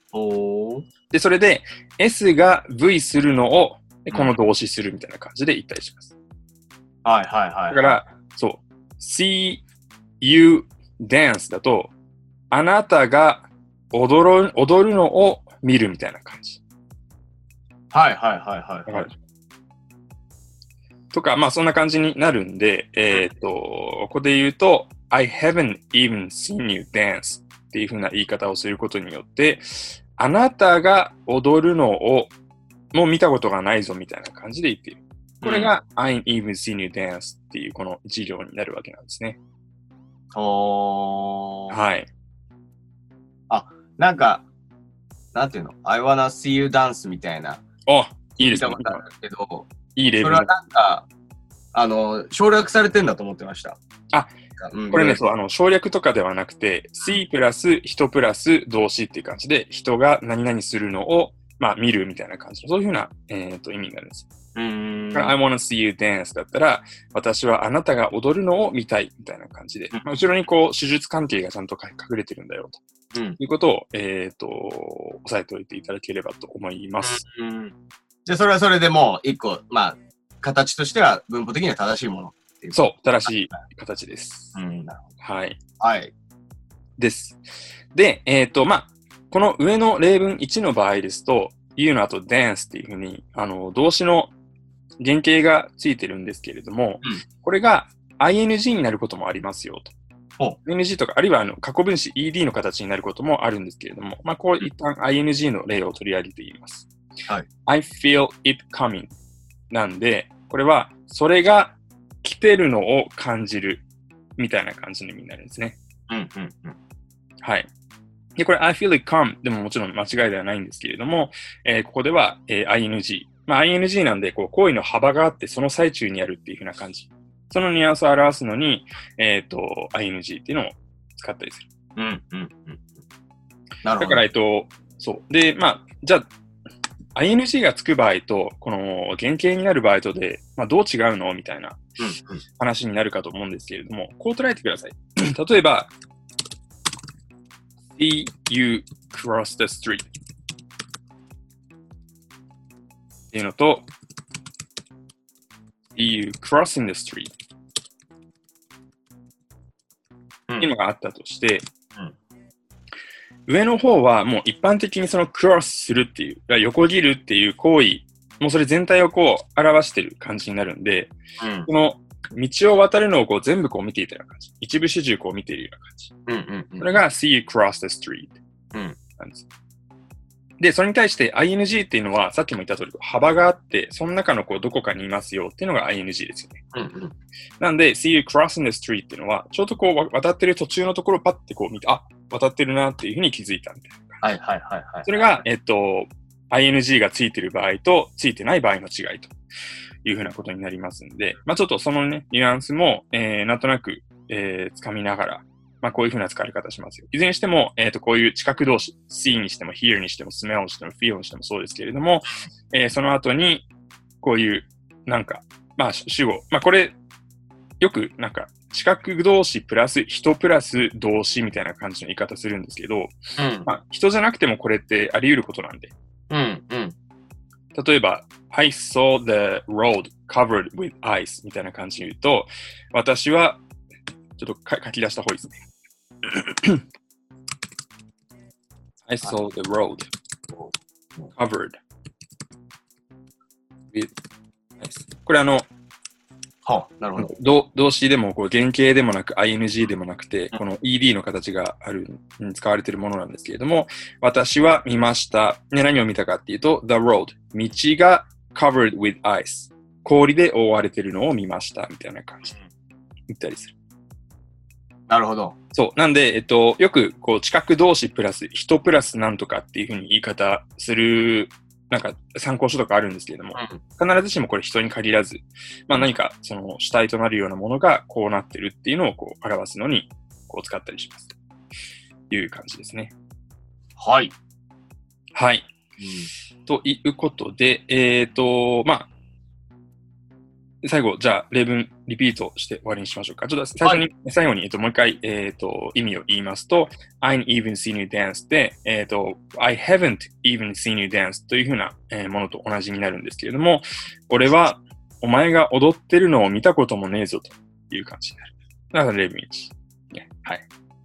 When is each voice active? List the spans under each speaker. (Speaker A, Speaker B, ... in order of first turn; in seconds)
Speaker A: 0.1-0.9, 7.0-8.0, 17.9-19.1, 35.4-35.7, 40.3-41.8, 43.5-44.5, 45.3-47.6, 48.4-49.7, 50.2-51.1, 51.7-53.8, 54.6-55.2, 64.6-65.3, 77.0-77.7, 78.3-83.3, 84.5-85.1, 85.8-86.1, 116.1-116.8, 132.0-132.9, 133.8-134.2, 142.0-142.4, 171.4-171.7, 176.3-177.0, 186.7-187.1, 194.2-195.4, 223.4-223.7, 226.3-226.9, 240.5-241.3, 246.7-247.3, 265.1-265.6, 273.6-273.8, 284.0-284.4, 286.0-286.3
Speaker B: 1.1-6.1, 7.7-9.6, 10.2-11.9, 12.5-16.6, 18.9-19.1, 21.1-32.3, 32.9-39.4, 41.7-42.1, 47.9-49.1, 49.9-50.5, 54.9-64.3, 65.1-72.8, 73.4-77.2, 82.7-84.5, 85.2-85.6, 87.0-87.4, 87.9-94.3, 95.0-99.9, 100.7-106.9, 107.7-109.1, 109.7-113.8, 114.4-115.8, 117.4-117.7, 118.4-131.7, 134.0-136.3, 137.2-141.8, 142.6-145.9, 148.0-150.1, 153.3-153.9, 155.9-157.3, 160.6-161.7, 163.5-171.1, 171.7-176.1, 176.8-178.4, 179.2-179.4, 180.6-186.6, 187.6-194.2, 195.1-199.3, 200.0-213.7, 214.2-217.0, 217.8-223.2, 223.7-225.9, 227.8-233.6, 234.4-235.6, 236.3-236.8, 239.1-240.1, 241.4-241.8, 244.8-245.7, 247.2-262.6, 263.3-263.7, 265.7-281.4, 282.3-283.1, 285.4-285.7, 286.7-289.1, 290.8-310.6